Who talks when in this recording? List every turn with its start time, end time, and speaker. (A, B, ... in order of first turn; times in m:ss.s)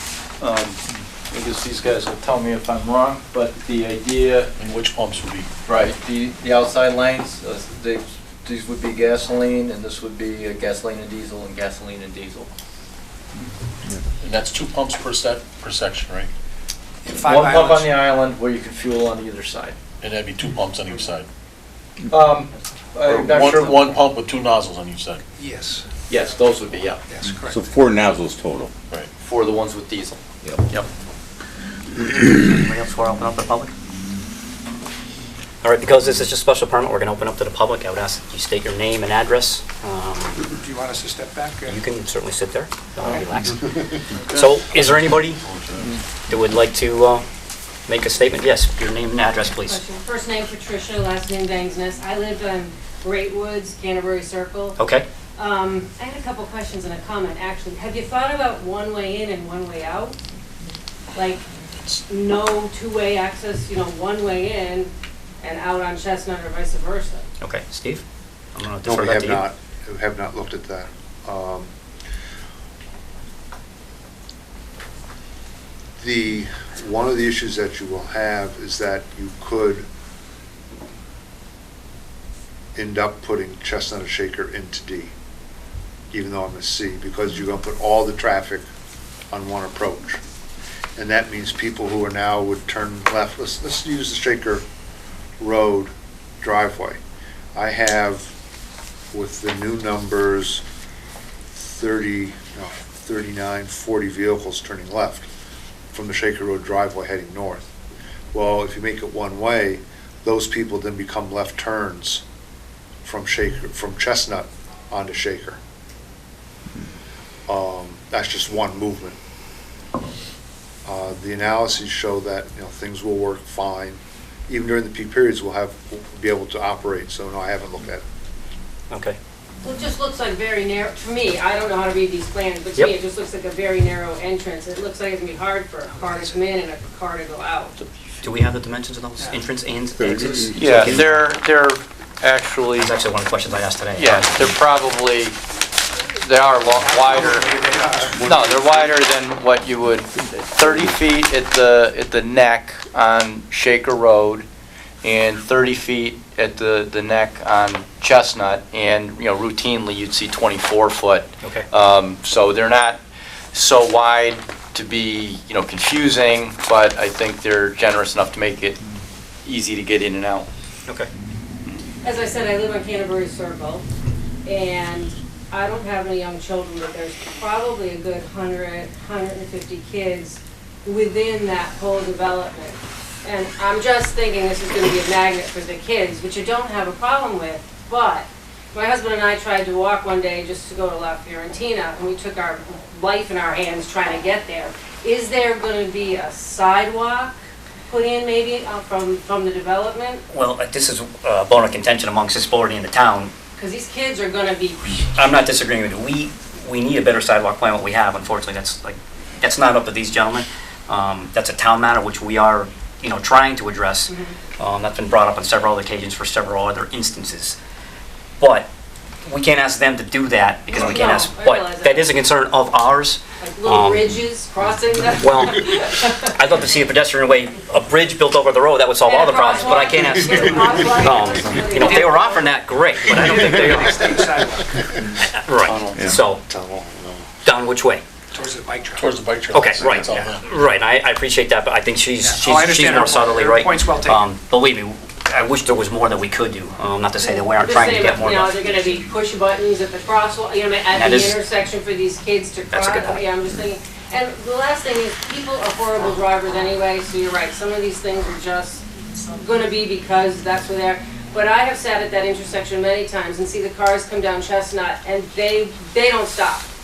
0:00.4-0:04.5 A
0:04.6-0:05.5 B
0:05.6-0:12.5 A
0:14.2-0:16.3 B
0:17.0-0:17.9 C
0:17.1-0:19.8 A
0:20.0-0:21.3 B
0:22.1-0:23.9 A
0:23.0-0:25.2 B
0:25.4-0:25.9 C
0:26.1-0:27.0 A
0:27.0-0:27.6 C
0:27.5-0:28.7 D
0:29.2-0:30.9 A
0:32.5-0:33.7 E
0:35.6-0:40.4 E
0:40.5-0:41.8 C
0:41.7-0:43.7 E
0:44.3-0:44.8 B
0:44.3-0:45.4 E
0:45.4-0:45.9 B
0:46.3-0:47.2 E
0:47.9-0:49.8 E
0:49.7-0:54.8 F
0:54.8-0:55.0 E
0:55.4-1:00.2 F
1:01.1-1:07.2 F
1:07.4-1:08.0 E
1:08.5-1:09.4 E
1:08.8-1:11.7 G
1:16.0-1:19.8 G
1:22.8-1:25.1 G
1:26.1-1:28.6 G
1:29.3-1:30.2 G
1:31.0-1:34.6 G
1:35.4-1:37.0 G
1:37.5-1:38.3 G
1:39.1-1:40.6 G
1:41.5-1:45.3 G
1:45.9-1:47.7 G
1:48.3-1:52.2 G
1:53.0-1:55.6 G
1:57.5-1:59.2 G
2:00.8-2:08.0 G
2:08.9-2:09.2 E
2:09.6-2:17.7 F
2:18.2-2:21.2 E
2:20.0-2:21.0 D
2:20.6-2:22.9 A
2:22.8-2:24.5 E
2:23.9-2:25.4 A
2:26.2-2:27.5 A
2:26.7-2:28.6 C
2:28.2-2:34.4 A
2:35.0-2:43.0 A
2:43.5-2:48.8 A
2:49.4-2:50.5 A
2:52.0-2:53.8 F
2:54.4-3:17.4 F
3:17.9-3:20.2 F
3:20.3-3:23.3 E
3:23.6-3:24.9 F
3:25.1-3:37.6 E
3:34.1-3:34.4 F
3:38.4-3:38.7 E
3:39.2-3:44.1 E
3:40.7-3:42.1 F
3:43.4-3:46.3 F
3:45.2-3:54.2 E
3:49.0-3:52.5 F
3:53.1-3:54.9 C
3:55.2-3:56.4 E
3:55.6-3:56.0 A
3:56.1-3:57.3 G
3:57.4-3:58.0 E
3:58.3-3:59.1 C
3:59.0-4:00.5 B
3:59.5-4:08.8 E
4:02.2-4:04.3 C
4:07.2-4:26.7 F
4:10.9-4:11.4 E
4:12.7-4:13.2 E